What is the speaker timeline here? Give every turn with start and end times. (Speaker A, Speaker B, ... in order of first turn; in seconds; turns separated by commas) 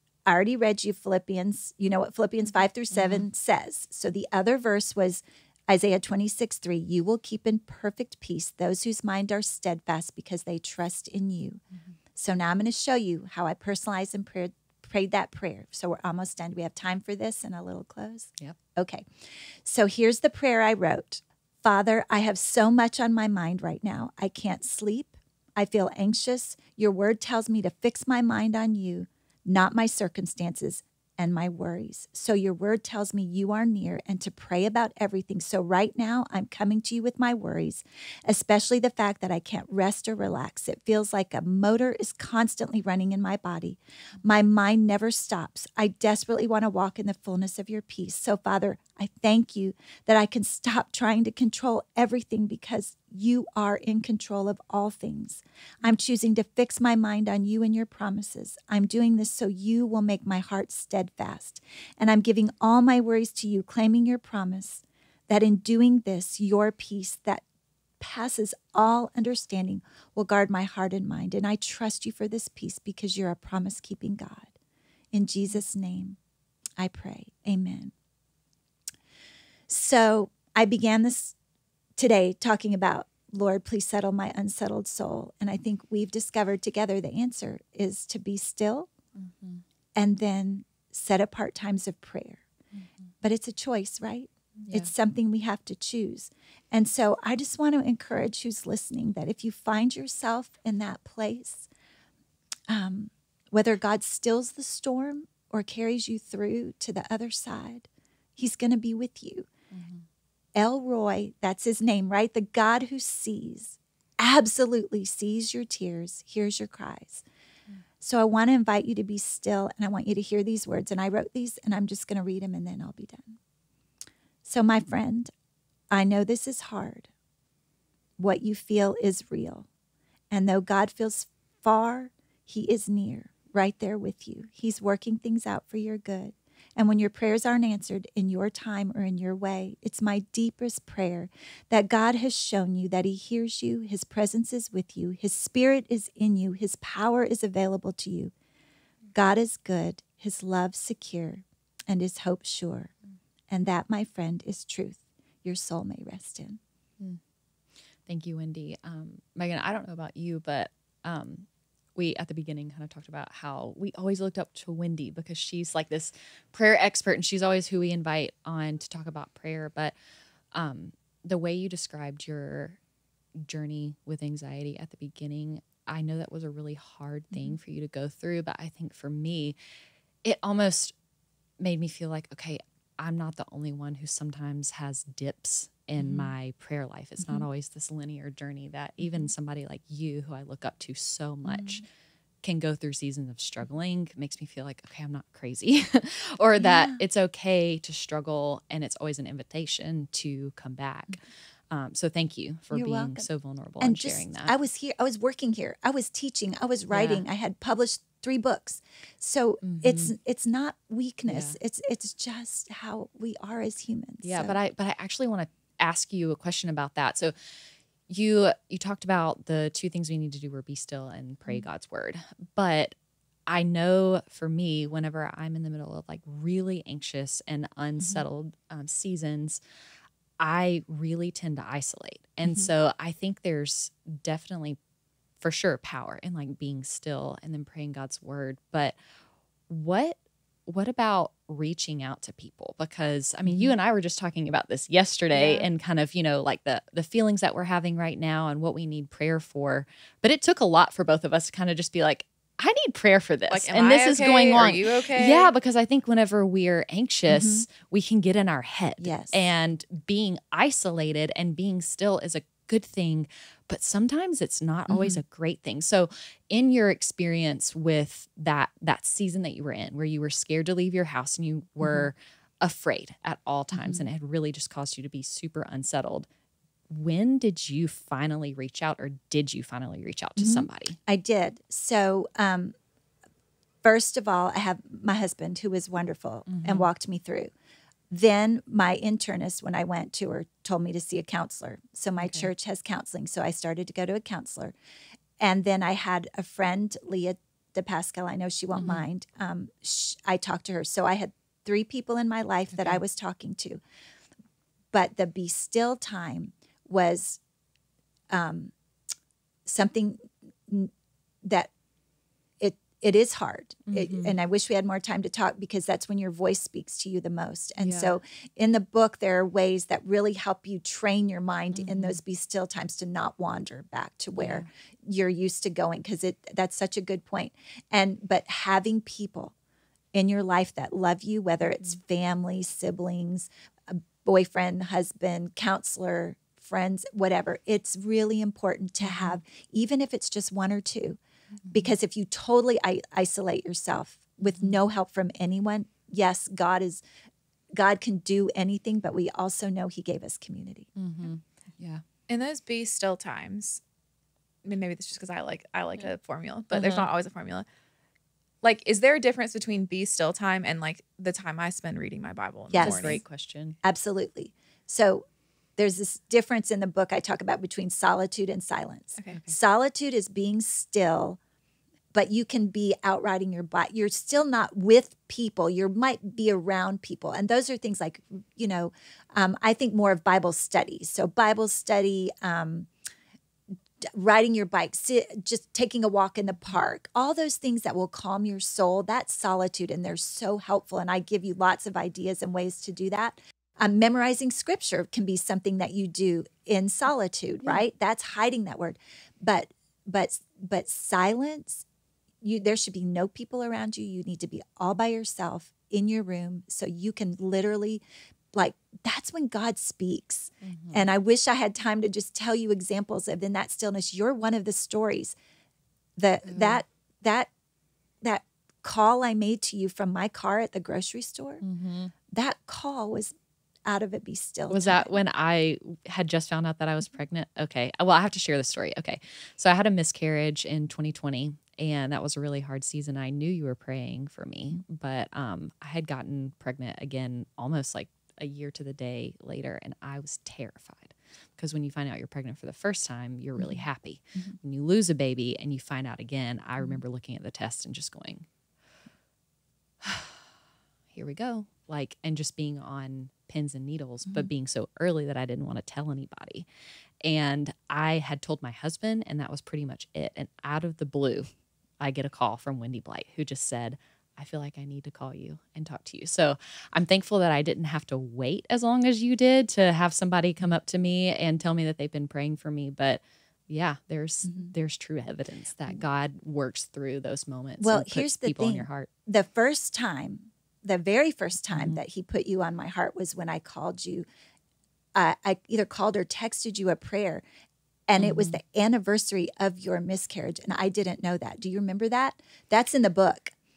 Speaker A: 0.2-11.6, Speaker A: 12.1-19.1, Speaker A: 19.6-67.4, Speaker A: 68.0-74.5, Speaker A: 75.1-76.2, Speaker A: 76.8-77.9, Speaker A: 79.7-81.3, Speaker A: 82.0-88.9, Speaker B: 89.2-89.6, Speaker A: 90.0-92.4, Speaker B: 92.8-93.1, Speaker A: 93.2-101.7, Speaker B: 94.6-94.9, Speaker A: 102.7-109.5, Speaker B: 109.7-110.0, Speaker A: 110.5-117.2, Speaker A: 118.0-123.4, Speaker A: 124.4-125.3, Speaker A: 125.9-127.1, Speaker A: 128.2-129.7, Speaker A: 130.3-148.3, Speaker A: 149.1-152.9, Speaker A: 153.5-156.6, Speaker B: 158.1-169.9, Speaker B: 170.5-172.8, Speaker B: 173.4-179.6, Speaker A: 177.3-177.6, Speaker B: 180.2-180.9, Speaker B: 181.6-191.8, Speaker A: 186.0-186.3, Speaker A: 187.2-187.4, Speaker A: 191.4-191.8, Speaker B: 192.4-204.5, Speaker A: 196.6-197.0, Speaker A: 202.7-203.3, Speaker A: 203.8-214.6, Speaker B: 206.9-207.2, Speaker B: 209.6-210.1, Speaker B: 211.3-211.6, Speaker B: 214.2-217.3, Speaker B: 218.1-222.9, Speaker B: 223.5-229.6, Speaker B: 230.4-234.8, Speaker B: 235.4-239.0, Speaker B: 239.7-276.3, Speaker A: 243.4-243.7, Speaker C: 245.3-245.7, Speaker C: 253.5-255.5, Speaker A: 257.3-257.7, Speaker A: 259.0-259.5, Speaker A: 264.9-265.2, Speaker A: 271.8-272.1, Speaker A: 273.7-274.0, Speaker B: 276.9-281.0, Speaker A: 280.4-282.7, Speaker A: 283.8-287.5, Speaker B: 286.5-286.9, Speaker A: 288.1-294.7, Speaker B: 292.2-292.5, Speaker A: 295.4-303.8, Speaker B: 298.8-299.0, Speaker A: 304.9-307.4, Speaker A: 308.3-308.7, Speaker A: 309.6-310.9, Speaker A: 311.4-311.7, Speaker A: 312.6-329.5, Speaker B: 313.9-314.3, Speaker B: 317.8-318.1, Speaker B: 321.7-322.2, Speaker B: 324.3-324.7, Speaker A: 330.1-341.2, Speaker B: 339.0-339.4, Speaker B: 341.7-341.9, Speaker A: 341.7-347.0, Speaker B: 344.4-344.8, Speaker A: 347.7-350.9, Speaker B: 351.0-352.0, Speaker C: 352.3-353.8, Speaker C: 354.6-357.6, Speaker B: 356.7-357.1, Speaker C: 358.6-363.2, Speaker A: 362.7-363.2, Speaker B: 362.8-363.8, Speaker A: 363.8-365.2, Speaker A: 365.8-371.4, Speaker A: 372.1-382.9, Speaker A: 384.0-401.9, Speaker A: 402.4-415.4, Speaker B: 410.6-411.0, Speaker A: 416.2-417.5, Speaker B: 416.5-416.8, Speaker A: 418.2-421.6, Speaker B: 421.6-422.1, Speaker A: 422.3-423.3, Speaker A: 423.9-425.1, Speaker B: 424.7-448.5, Speaker A: 443.6-443.8, Speaker B: 450.0-450.4, Speaker B: 451.1-456.7, Speaker B: 457.2-479.1, Speaker A: 477.8-484.3, Speaker B: 481.7-482.0, Speaker A: 485.1-487.4, Speaker A: 488.1-493.5, Speaker B: 488.2-488.6